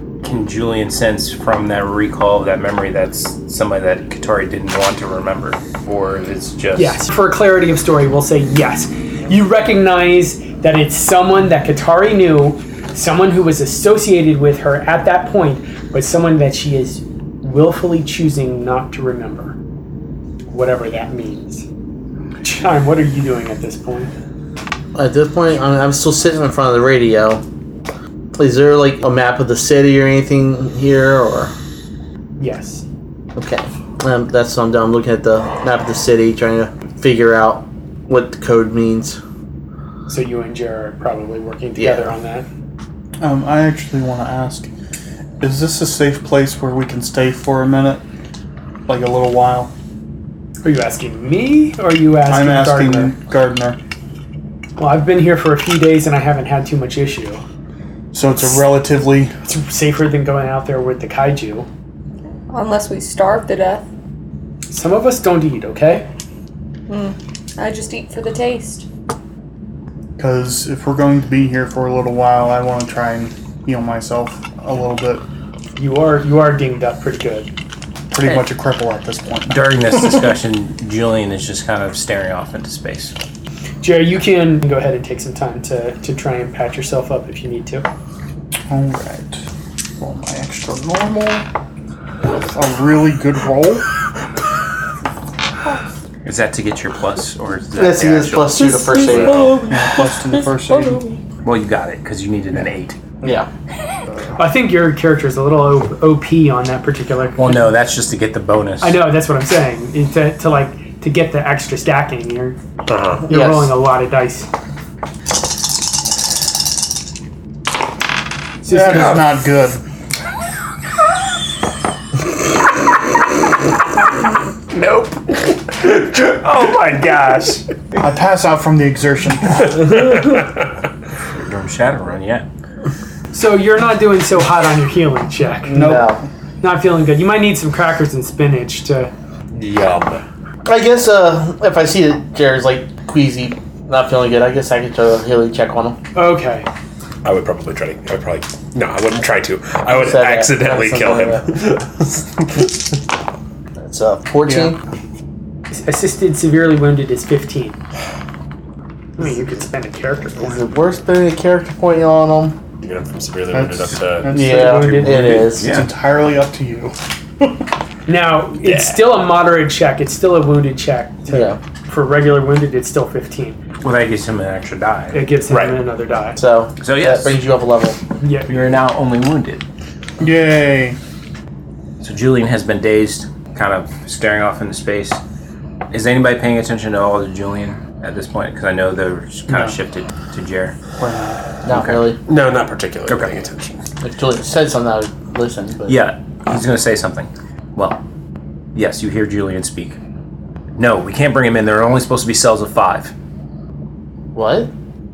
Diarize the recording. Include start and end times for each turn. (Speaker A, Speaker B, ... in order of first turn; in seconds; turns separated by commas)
Speaker A: 0.2-7.0, Speaker B: 6.8-19.6, Speaker B: 20.5-21.6, Speaker B: 22.4-24.1, Speaker C: 24.9-27.4, Speaker C: 28.3-31.5, Speaker B: 32.4-32.8, Speaker C: 33.4-39.2, Speaker B: 40.1-42.5, Speaker C: 41.8-42.1, Speaker D: 43.2-44.7, Speaker D: 45.4-48.0, Speaker D: 48.9-49.7, Speaker B: 50.6-53.1, Speaker D: 52.2-53.8, Speaker B: 54.8-57.4, Speaker D: 58.1-59.3, Speaker B: 59.5-61.7, Speaker E: 62.5-63.9, Speaker B: 64.7-66.1, Speaker E: 66.9-68.8, Speaker D: 70.2-75.2, Speaker B: 75.8-77.5, Speaker D: 78.1-80.3, Speaker A: 79.5-83.1, Speaker B: 83.8-87.9, Speaker D: 88.7-89.4, Speaker D: 90.0-91.5, Speaker D: 92.2-93.9, Speaker A: 96.2-98.7, Speaker C: 97.8-99.5, Speaker E: 98.5-101.2, Speaker F: 99.1-99.4, Speaker D: 99.7-101.0, Speaker A: 101.4-103.0, Speaker C: 103.2-103.5, Speaker B: 104.4-107.7, Speaker A: 107.4-109.0, Speaker B: 108.8-112.6, Speaker F: 112.9-113.3, Speaker C: 113.3-113.7, Speaker B: 113.3-114.5, Speaker B: 118.6-119.2, Speaker D: 118.7-119.8, Speaker B: 126.6-127.6, Speaker D: 128.0-130.1, Speaker A: 131.3-132.5, Speaker B: 133.3-136.0, Speaker C: 135.7-136.2, Speaker D: 135.7-136.3, Speaker B: 136.6-139.1, Speaker F: 139.5-140.2, Speaker C: 140.6-146.0, Speaker B: 146.1-146.7, Speaker F: 147.2-152.7, Speaker C: 149.9-151.6, Speaker C: 153.8-154.8, Speaker D: 154.4-154.7, Speaker B: 155.7-157.8, Speaker B: 159.2-160.6, Speaker C: 160.4-162.6, Speaker F: 162.8-164.3, Speaker D: 163.5-167.5, Speaker C: 164.3-165.8, Speaker B: 164.4-165.4, Speaker A: 164.9-165.9, Speaker B: 168.1-173.6, Speaker F: 168.7-169.0, Speaker C: 171.3-171.6, Speaker A: 173.8-175.2, Speaker B: 175.1-176.4, Speaker F: 175.5-175.8, Speaker C: 176.3-178.0, Speaker A: 176.8-177.4, Speaker B: 178.2-178.7, Speaker A: 178.5-179.6, Speaker D: 180.2-181.0, Speaker A: 182.0-185.2, Speaker A: 185.9-190.7, Speaker D: 189.5-189.8, Speaker D: 191.0-191.4, Speaker C: 191.6-192.2, Speaker A: 191.7-192.0, Speaker F: 192.2-193.8, Speaker A: 193.1-193.3, Speaker C: 194.0-196.0, Speaker A: 195.9-198.0, Speaker A: 198.7-200.0, Speaker A: 200.8-203.1, Speaker C: 204.3-204.7